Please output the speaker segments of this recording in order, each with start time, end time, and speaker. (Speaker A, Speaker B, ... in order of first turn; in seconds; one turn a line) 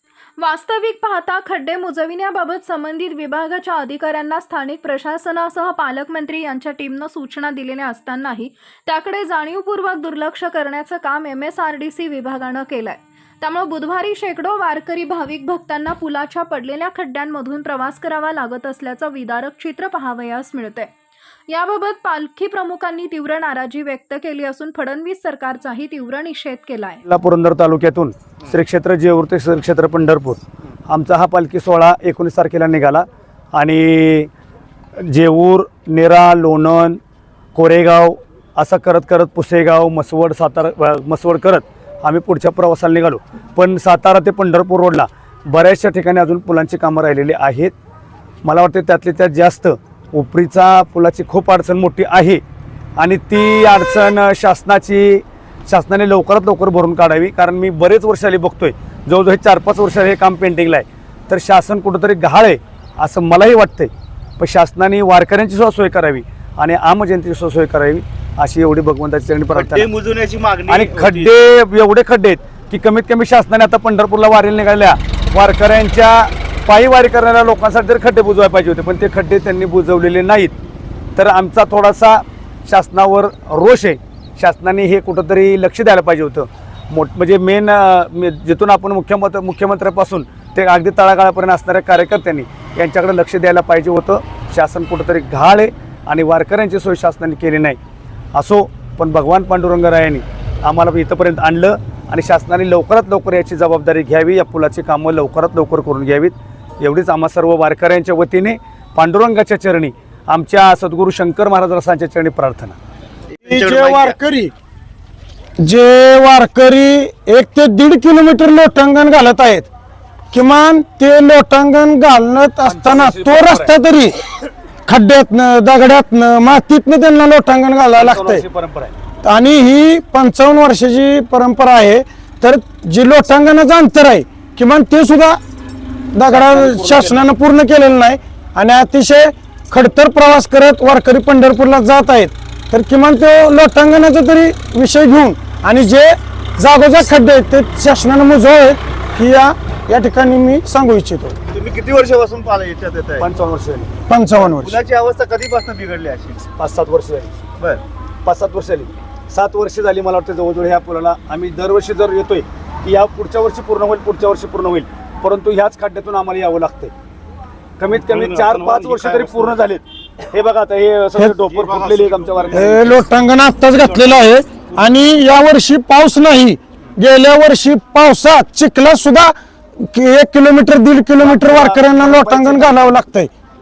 Speaker A: 0.4-20.9
Speaker A: 21.5-27.0
Speaker B: 27.1-34.3
Speaker B: 35.0-37.0
Speaker B: 37.5-47.7
Speaker B: 48.4-52.4
Speaker B: 53.0-69.9
Speaker C: 69.5-71.4
Speaker B: 70.7-80.5
Speaker B: 81.2-97.8
Speaker B: 98.3-112.8
Speaker C: 113.4-114.2
Speaker D: 113.5-114.5
Speaker D: 115.6-119.7
Speaker D: 120.3-124.2
Speaker B: 122.7-123.7
Speaker D: 124.9-128.4
Speaker B: 128.0-128.9
Speaker D: 129.2-135.4
Speaker D: 136.1-151.4
Speaker B: 136.3-137.2
Speaker C: 151.5-153.3
Speaker B: 153.2-153.9
Speaker D: 154.1-154.8
Speaker C: 154.4-156.5
Speaker B: 156.6-157.4
Speaker B: 158.2-166.9
Speaker B: 167.8-172.9
Speaker C: 168.0-169.6
Speaker C: 171.4-173.0
Speaker D: 172.5-183.3
Speaker B: 181.2-183.0